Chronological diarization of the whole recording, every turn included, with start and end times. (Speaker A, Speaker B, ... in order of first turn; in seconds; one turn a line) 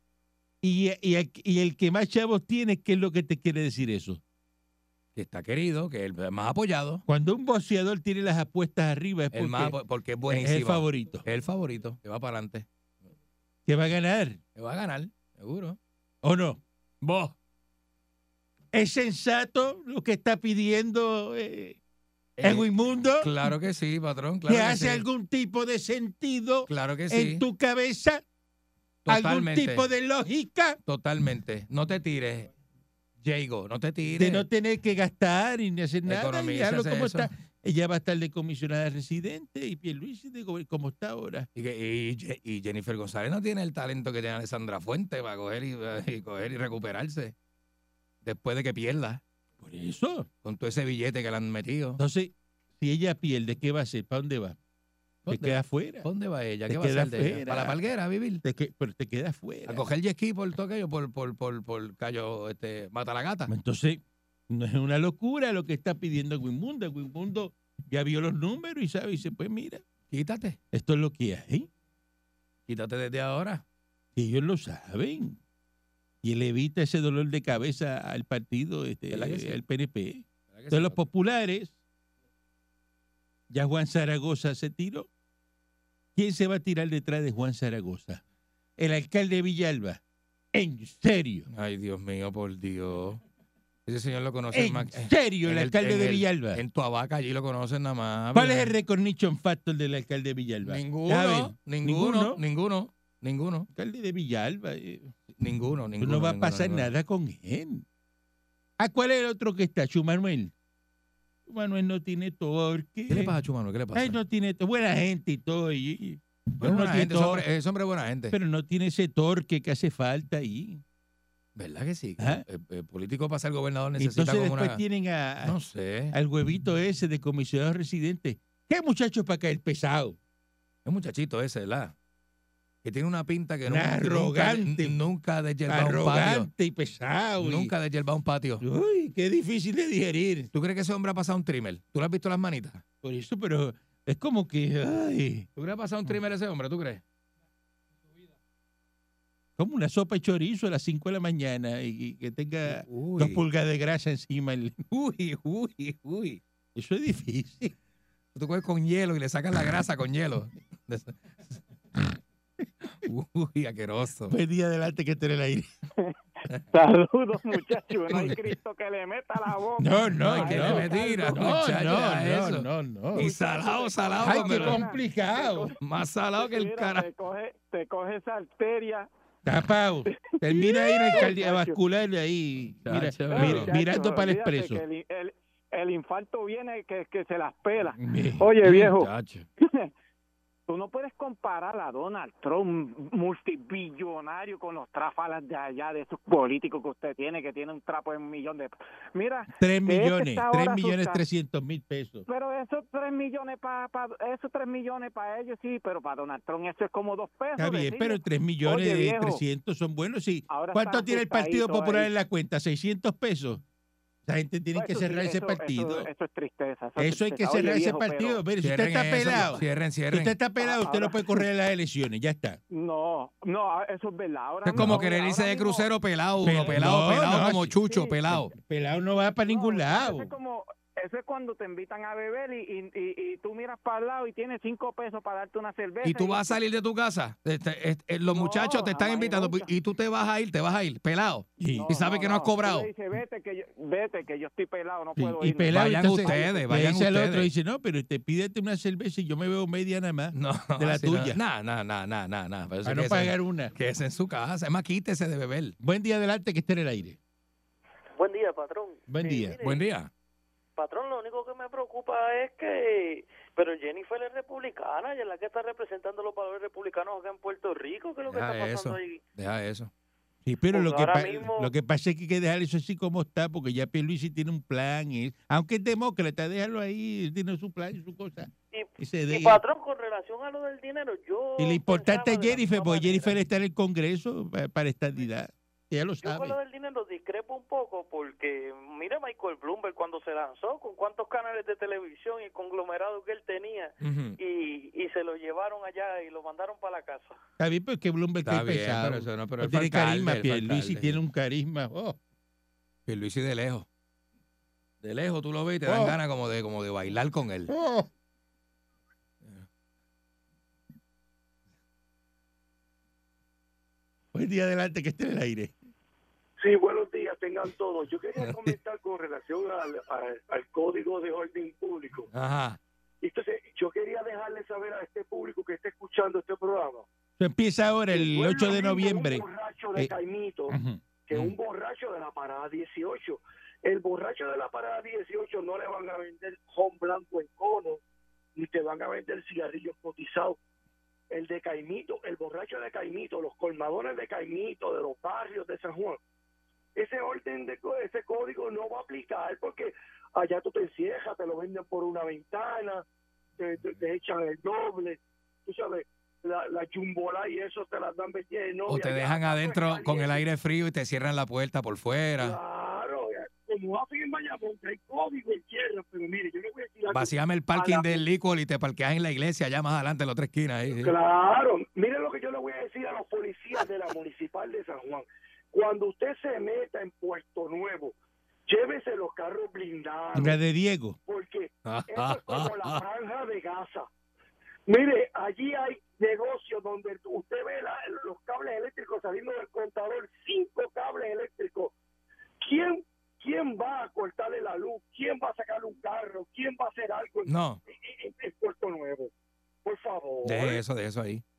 Speaker A: 0.6-4.2
Speaker B: 5.1-7.0
Speaker A: 7.1-9.8
Speaker B: 9.3-12.7
Speaker A: 10.3-11.2
Speaker A: 13.7-14.4
Speaker B: 14.5-15.8
Speaker A: 16.2-16.6
Speaker B: 17.0-17.3
Speaker A: 18.7-21.8
Speaker B: 22.4-25.0
Speaker A: 22.4-23.5
Speaker A: 24.5-28.2
Speaker B: 26.7-27.4
Speaker B: 29.1-29.9
Speaker A: 29.1-30.8
Speaker B: 30.9-32.5
Speaker B: 33.2-34.5
Speaker A: 34.2-41.5
Speaker B: 36.0-37.3
Speaker B: 41.5-47.3
Speaker B: 48.2-49.2
Speaker A: 49.6-50.3
Speaker B: 50.4-52.0
Speaker A: 52.0-54.6
Speaker A: 55.2-56.1
Speaker B: 55.3-58.4
Speaker A: 56.7-57.8
Speaker A: 58.4-59.9
Speaker B: 59.7-63.5
Speaker A: 63.5-69.8
Speaker B: 70.1-70.6
Speaker A: 70.7-71.7
Speaker B: 72.7-73.6
Speaker A: 74.2-75.4
Speaker A: 76.2-81.8
Speaker B: 79.1-79.6
Speaker B: 80.5-81.0
Speaker A: 83.5-85.1
Speaker A: 86.1-88.2
Speaker A: 88.8-90.0
Speaker A: 90.5-91.5
Speaker B: 91.5-93.2
Speaker B: 93.8-98.7
Speaker A: 94.5-96.6
Speaker A: 98.3-102.4
Speaker B: 100.6-103.7
Speaker A: 103.7-105.2
Speaker B: 105.4-106.9
Speaker A: 106.0-107.8
Speaker A: 108.8-110.5
Speaker A: 111.5-113.3
Speaker B: 113.1-114.2
Speaker A: 113.9-117.4
Speaker B: 116.6-118.3
Speaker A: 118.3-120.8
Speaker B: 121.5-124.8
Speaker A: 122.2-122.4
Speaker A: 124.0-125.5
Speaker B: 125.4-126.1
Speaker A: 126.1-130.2
Speaker B: 130.8-131.9
Speaker B: 132.8-136.5
Speaker A: 133.7-135.0
Speaker A: 135.7-137.7
Speaker B: 137.4-138.6
Speaker A: 138.6-140.5
Speaker B: 140.5-142.8
Speaker A: 143.0-145.5
Speaker B: 145.6-147.0
Speaker A: 149.6-154.8
Speaker B: 152.7-153.4
Speaker B: 154.9-156.4
Speaker A: 156.7-157.7
Speaker B: 158.3-161.6
Speaker B: 162.8-164.3
Speaker A: 164.3-165.7
Speaker C: 166.7-171.6
Speaker B: 168.1-168.3
Speaker A: 169.8-173.3
Speaker B: 170.2-174.9
Speaker C: 173.1-175.7
Speaker A: 174.2-175.7
Speaker B: 175.8-177.1
Speaker C: 176.3-179.1
Speaker A: 179.4-184.8
Speaker C: 180.1-181.8
Speaker B: 182.8-183.7
Speaker C: 183.3-189.9
Speaker A: 188.1-188.4
Speaker B: 188.2-189.5
Speaker C: 190.7-201.2
Speaker A: 199.5-202.2
Speaker C: 202.3-209.4
Speaker A: 207.6-213.6
Speaker C: 210.5-212.1
Speaker A: 214.2-216.1
Speaker C: 214.7-218.4
Speaker A: 217.0-222.6
Speaker B: 218.6-220.4
Speaker C: 219.3-219.6
Speaker C: 220.6-221.4
Speaker C: 222.7-225.9
Speaker B: 224.6-228.5
Speaker A: 224.8-225.0
Speaker A: 226.4-227.8
Speaker C: 226.5-227.0
Speaker C: 227.8-228.2
Speaker A: 228.3-230.3
Speaker C: 229.4-236.6
Speaker B: 236.0-242.9
Speaker C: 238.3-239.7
Speaker A: 241.6-242.0
Speaker C: 241.7-246.7
Speaker A: 245.2-251.4
Speaker B: 245.7-247.5
Speaker B: 250.3-255.8
Speaker A: 252.8-253.7
Speaker A: 255.8-257.2
Speaker D: 258.1-259.8
Speaker A: 259.1-259.6
Speaker B: 259.6-260.1
Speaker D: 260.8-269.2
Speaker B: 268.3-269.9
Speaker A: 270.4-279.6
Speaker D: 270.7-271.7
Speaker D: 278.7-283.4
Speaker A: 281.6-286.6
Speaker D: 286.2-297.3
Speaker B: 294.0-294.4
Speaker A: 297.6-302.2
Speaker B: 298.4-301.2
Speaker B: 303.1-303.9
Speaker B: 305.0-307.7
Speaker A: 305.9-306.2
Speaker A: 307.7-308.1
Speaker A: 314.3-315.8
Speaker E: 316.6-322.3
Speaker B: 322.3-322.8
Speaker E: 323.2-327.1
Speaker A: 327.4-329.4
Speaker E: 328.1-338.0
Speaker A: 330.7-331.0
Speaker E: 338.6-340.6
Speaker E: 341.3-346.2
Speaker E: 346.9-353.0
Speaker E: 353.6-360.4
Speaker B: 358.9-362.6
Speaker E: 362.4-368.2
Speaker B: 367.1-371.1
Speaker E: 371.0-378.1
Speaker E: 378.7-380.6
Speaker A: 380.3-381.2
Speaker E: 381.2-384.1
Speaker B: 381.8-383.0
Speaker E: 384.9-391.9
Speaker E: 392.6-399.3
Speaker B: 397.4-397.8
Speaker E: 399.8-400.8
Speaker B: 400.4-401.4